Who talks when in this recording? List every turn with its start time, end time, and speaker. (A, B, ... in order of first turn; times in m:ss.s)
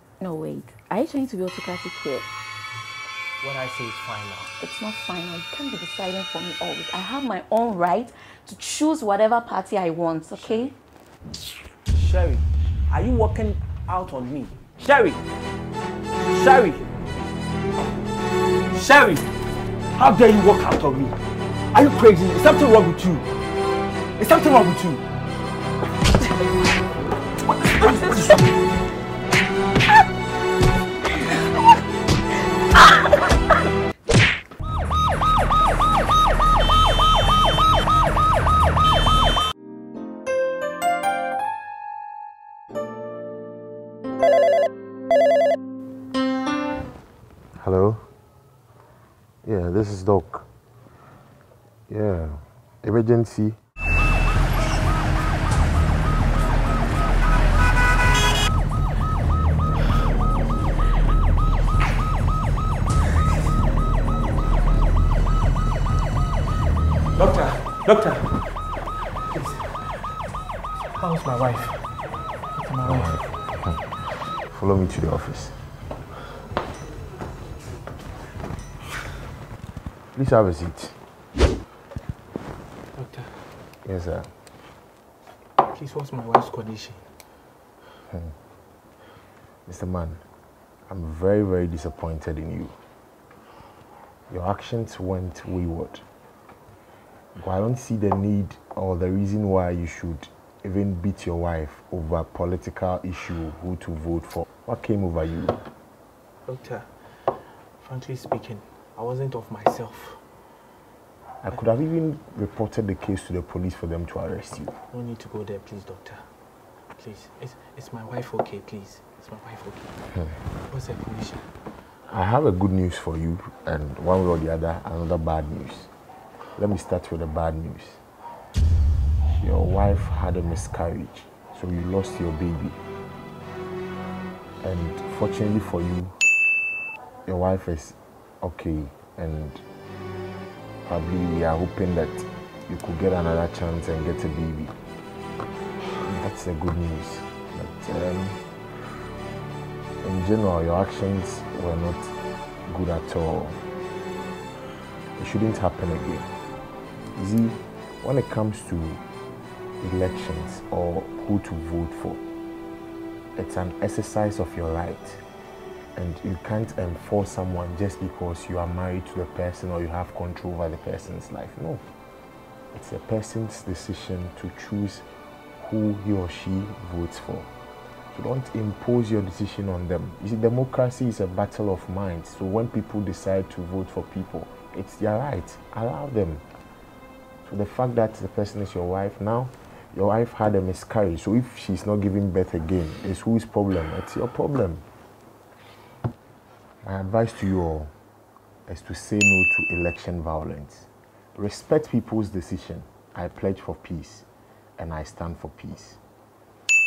0:00.2-0:02.3 A
0:03.4-0:04.5 B
0:04.6-0:10.7 A
0:10.4-0:10.7 B
0:11.9-0:15.2 B
0:16.3-0:16.9 B
0:18.7-0:19.3 B
0:19.9-0:21.2 B
0:21.7-0:23.3 B
0:24.2-0:25.0 B
0:27.6-0:28.5 B
0:47.6-0:48.1 C
0:49.4-0:50.5 C
0:51.9-0:53.6 C
1:07.2-1:08.4 B
1:09.3-1:09.9 B
1:10.9-1:12.0 B
1:12.5-1:13.3 B
1:12.8-1:15.6 C
1:20.2-1:21.0 C
1:22.9-1:23.5 B
1:23.8-1:24.3 C
1:25.6-1:27.1 B
1:29.7-1:30.2 C
1:30.9-1:32.8 C
1:34.3-1:36.0 C
1:37.4-1:45.6 C
1:46.5-1:47.0 B
1:47.8-1:50.2 B
1:51.4-1:54.8 C
1:54.9-1:56.2 B
1:57.0-2:00.0 B
2:00.6-2:01.5 B
2:02.1-2:05.9 C
2:06.6-2:08.0 C
2:09.2-2:12.8 C
2:14.6-2:16.2 C
2:17.3-2:19.6 C
2:20.9-2:24.8 C
2:26.0-2:28.4 C
2:30.0-2:32.1 C
2:32.7-2:33.6 C
2:35.2-2:36.3 C
2:37.2-2:39.0 C
2:39.8-2:42.2 C
2:43.4-2:45.2 C
2:46.0-2:51.8 C
2:52.7-2:55.1 C
2:55.6-2:57.5 C
2:58.1-3:06.4 C
3:07.4-3:14.8 C
3:16.8-3:17.9 C
3:18.7-3:24.3 C
3:24.8-3:26.0 C